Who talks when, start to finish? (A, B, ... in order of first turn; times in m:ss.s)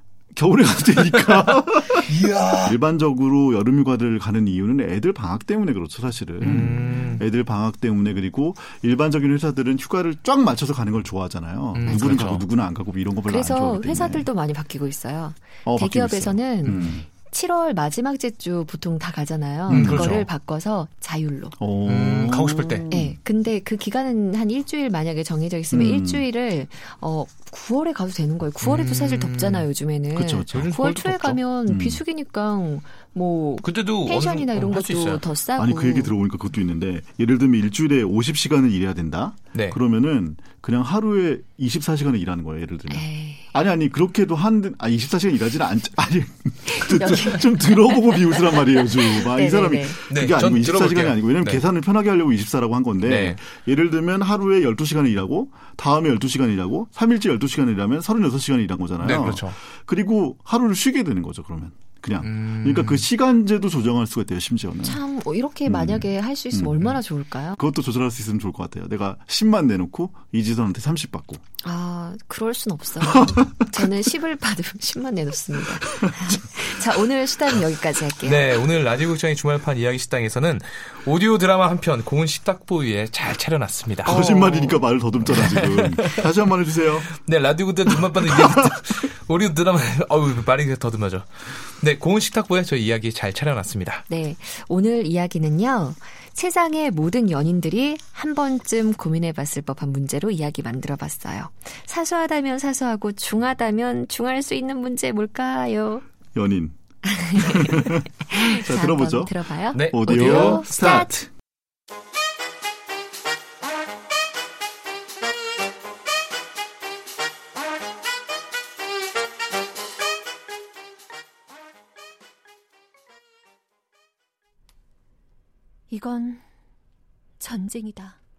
0:00.3-0:14.3 A
0:01.0-0:02.8 B
0:06.4-0:07.2 B
0:11.7-0:12.4 B
0:11.8-0:12.2 C
0:13.3-0:21.6 C
0:15.6-0:17.1 A
0:19.7-0:20.2 A
0:19.7-0:20.3 B
0:21.6-0:23.2 A
0:21.8-0:23.0 B
0:22.9-0:36.1 C
0:25.7-0:26.2 A
0:28.6-0:29.7 B
0:30.1-0:30.7 A
0:30.5-0:31.4 B
0:31.7-0:32.0 A
0:33.6-0:35.2 B
0:35.6-1:05.0 A
0:39.5-0:39.8 B
0:42.9-0:43.5 C
0:46.7-0:50.0 C
0:50.1-0:51.6 B
0:53.0-0:53.4 B
0:59.0-0:59.6 B
1:02.2-1:03.1 B
1:04.8-1:07.6 C
1:05.6-1:07.0 A
1:07.6-1:11.4 A
1:11.6-1:18.6 C
1:13.0-1:13.4 A
1:16.0-1:16.3 A
1:18.2-1:24.2 B
1:24.0-1:27.1 A
1:24.1-1:24.8 C
1:25.2-1:26.3 B
1:27.1-1:34.0 B
1:28.2-1:28.5 A
1:34.1-1:46.0 C
1:46.3-1:46.8 A
1:47.0-1:51.2 C
1:47.3-1:51.3 A
1:49.7-1:50.7 B
2:05.9-2:06.4 C
2:07.4-2:08.2 C